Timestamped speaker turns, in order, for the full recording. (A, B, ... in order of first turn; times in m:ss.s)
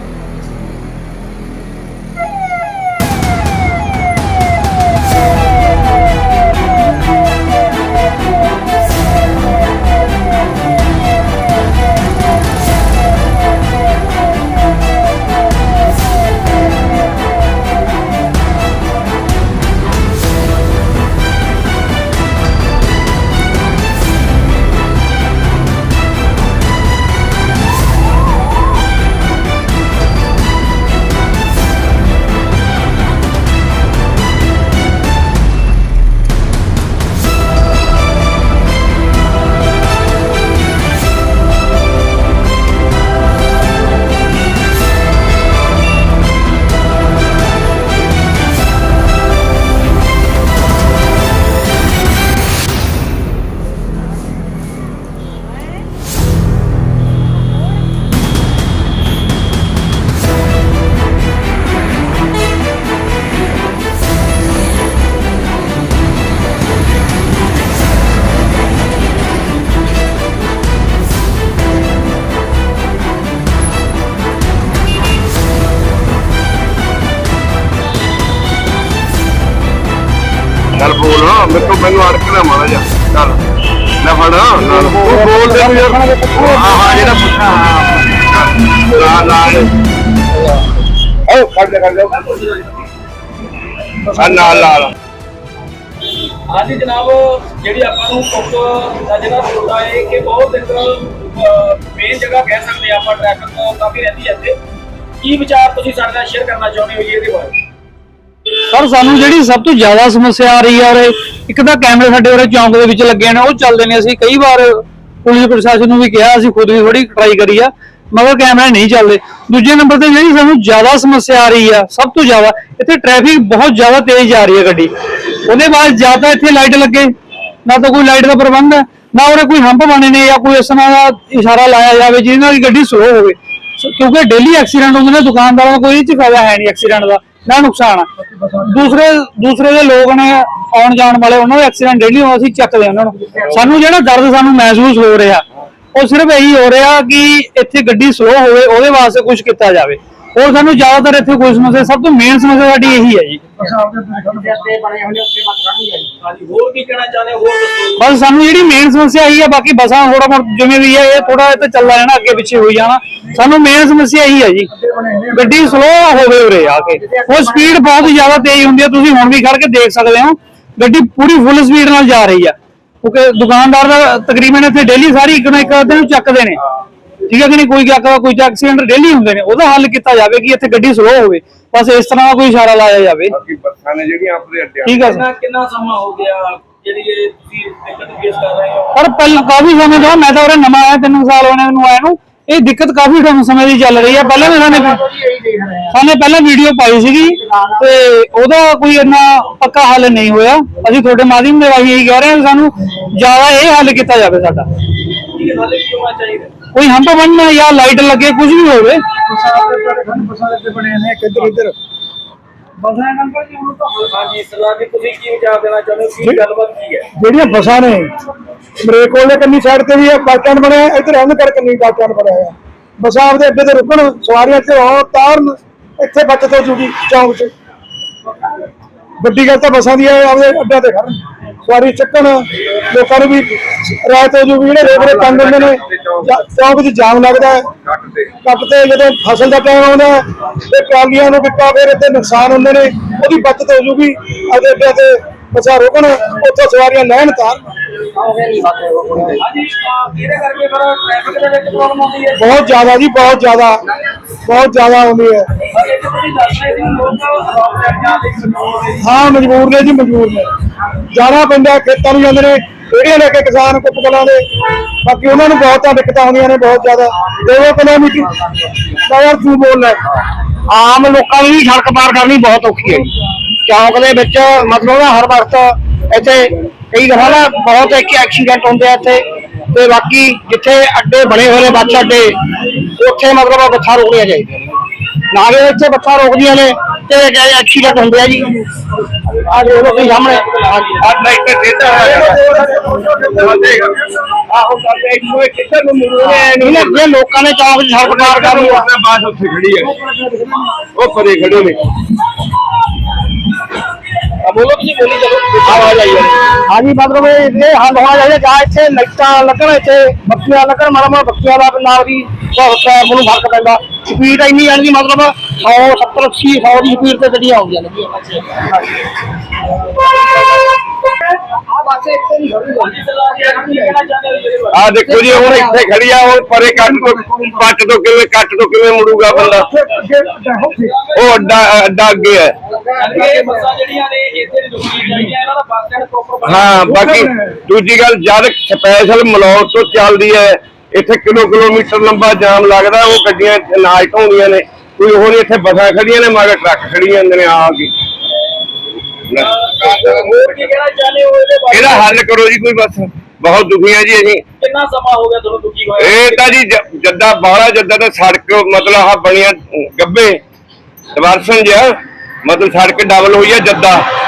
1:20.7-1:23.4 A
1:24.0-1:29.7 A
1:24.8-1:27.0 B
1:25.0-1:27.0 C
1:31.3-1:32.1 A
1:32.0-1:32.9 D
1:34.1-1:34.9 A
1:34.3-1:34.6 B
1:36.5-1:44.6 D
1:45.2-1:47.6 D
1:48.7-2:04.9 E
2:05.4-2:07.1 E
2:07.7-2:18.1 E
2:18.6-2:33.6 E
2:33.6-2:34.4 B
2:34.1-2:36.1 C
2:36.2-2:38.0 D
2:38.0-2:44.7 E
2:44.8-2:45.6 B
2:45.3-2:56.6 E
2:47.0-2:48.2 C
2:57.3-3:03.4 E
3:03.3-3:05.0 A
3:04.8-3:05.2 E
3:05.0-3:09.0 D
3:09.0-3:15.0 E
3:14.0-3:16.0 C
3:15.9-3:24.7 E
3:17.2-3:17.9 C
3:25.3-3:26.5 D
3:26.8-3:29.0 E
3:29.3-3:31.8 B
3:32.8-3:34.1 B
3:34.1-3:37.1 D
3:37.2-3:38.1 B
3:38.8-3:47.5 B
3:49.2-3:57.7 B
3:54.8-3:56.4 A
3:57.8-3:58.3 A
3:58.4-4:07.6 B
4:08.2-4:09.4 C
4:09.4-4:12.7 D
4:12.4-4:13.8 B
4:14.5-4:15.5 B
4:15.7-4:19.2 D
4:19.0-4:20.5 B
4:21.1-4:24.4 B
4:25.0-4:28.4 B
4:29.1-4:30.0 B
4:30.7-4:33.1 C
4:33.6-4:48.6 C
4:49.4-4:51.2 D
4:49.4-4:51.1 C
4:51.0-4:52.4 A
4:51.8-4:53.0 D
4:52.0-4:52.5 C
4:52.0-4:53.6 B
4:53.3-4:54.1 A
4:56.2-4:57.0 A
4:56.2-4:58.9 C
4:58.0-5:00.0 A
5:00.9-5:01.8 A
5:04.4-5:06.4 D
5:05.7-5:06.0 C
5:06.7-5:18.7 C
5:21.5-5:23.6 C
5:22.8-5:25.2 D
5:24.7-5:29.7 A
5:25.0-5:25.8 C
5:26.7-5:27.7 B
5:29.3-5:31.1 B
5:30.5-5:31.5 D
5:31.2-5:32.6 A
5:32.7-5:33.5 C
5:33.0-5:37.0 D
5:33.2-5:33.4 B
5:36.4-5:47.9 A
5:36.8-5:37.6 B
5:49.3-5:50.7 A
5:49.4-5:52.2 D
5:51.7-5:54.4 A
5:54.6-5:56.6 D
5:56.0-6:00.4 A
6:01.2-6:04.1 A